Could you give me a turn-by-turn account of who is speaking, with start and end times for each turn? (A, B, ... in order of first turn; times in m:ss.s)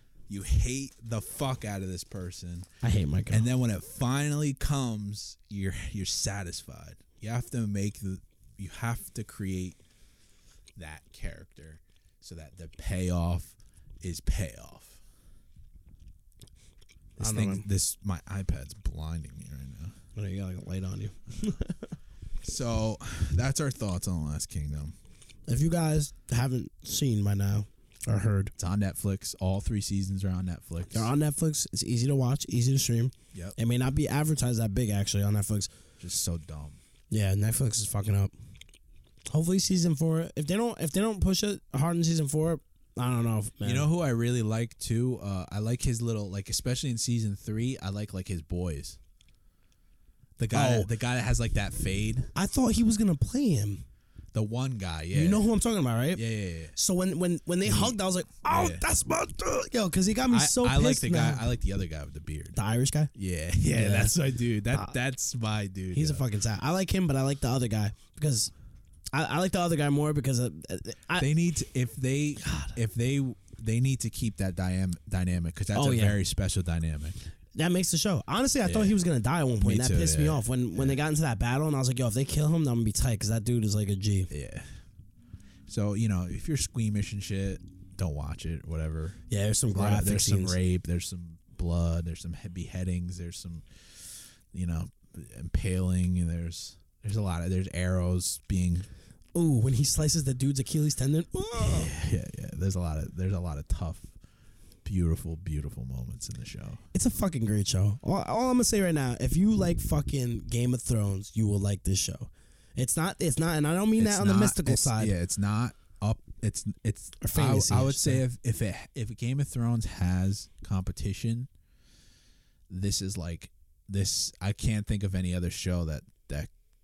0:00.3-0:02.7 A
0:02.8-0:03.5 B
0:03.3-0:09.8 A
0:10.8-0:15.0 A
0:17.2-0:17.7 B
0:17.2-0:20.0 A
0:20.2-0:21.9 B
0:22.4-0:25.0 A
0:25.5-0:28.5 B
0:28.6-0:31.1 A
0:30.9-0:35.7 B
0:36.0-0:36.8 A
0:37.1-0:38.3 B
0:39.3-0:43.9 B
0:43.6-0:49.0 A
0:50.4-0:52.3 A
0:50.5-0:50.9 B
0:52.4-0:53.8 B
0:54.3-0:55.5 A
0:55.1-0:56.2 B
0:56.1-0:56.8 A
0:56.8-1:01.4 B
0:57.6-0:58.8 A
1:00.3-1:02.6 A
1:02.5-1:03.1 B
1:03.1-1:06.2 A
1:03.7-1:04.2 B
1:04.7-1:05.0 B
1:05.9-1:08.5 B
1:09.1-1:11.3 B
1:11.2-1:17.2 A
1:12.4-1:12.8 B
1:15.7-1:16.2 B
1:17.6-1:24.3 B
1:18.6-1:19.0 A
1:19.6-1:21.0 A
1:24.3-1:24.7 A
1:25.7-1:38.9 A
1:29.3-1:30.6 B
1:39.4-1:41.9 B
1:41.6-1:44.1 A
1:44.8-1:46.8 A
1:46.9-1:55.1 B
1:54.0-2:01.5 A
1:57.2-1:58.2 B
2:02.7-2:06.5 A